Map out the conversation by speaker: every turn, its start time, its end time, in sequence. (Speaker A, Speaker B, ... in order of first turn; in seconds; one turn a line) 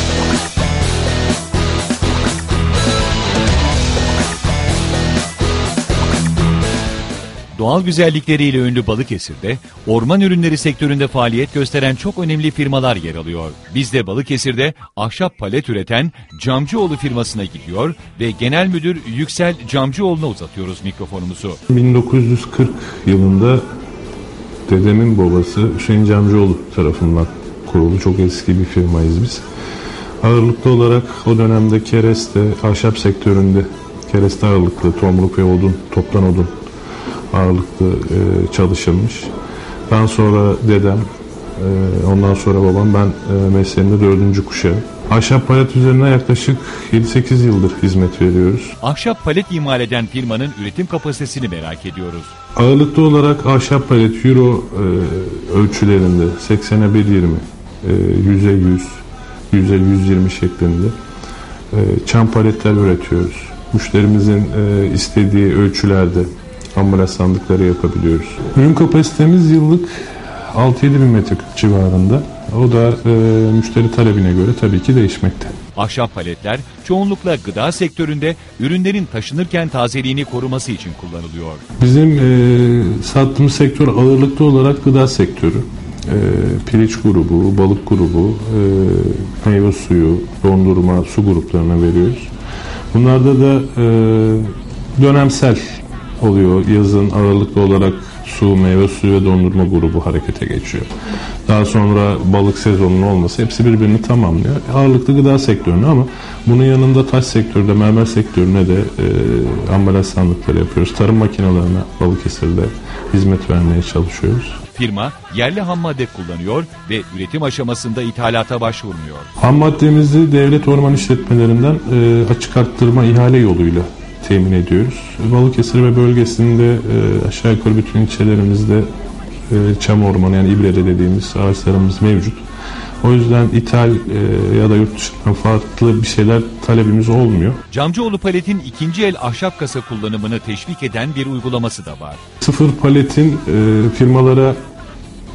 Speaker A: 7.5-21.6
Speaker B: 21.7-23.6
Speaker B: 24.7-29.4
Speaker B: 30.2-36.5
Speaker B: 37.3-39.3
Speaker B: 39.9-41.0
Speaker B: 41.6-48.8
Speaker A: 48.8-52.3
Speaker B: 52.5-58.9
Speaker B: 59.5-60.9
Speaker B: 61.7-75.5
Speaker A: 75.8-81.6
Speaker B: 81.8-92.3
Speaker B: 92.9-95.6
Speaker B: 96.2-100.9
Speaker B: 101.5-114.6
Speaker A: 114.7-119.3
Speaker B: 119.4-128.9
Speaker B: 129.5-132.4
Speaker B: 133.0-137.6
Speaker A: 137.7-142.2
Speaker B: 142.4-144.6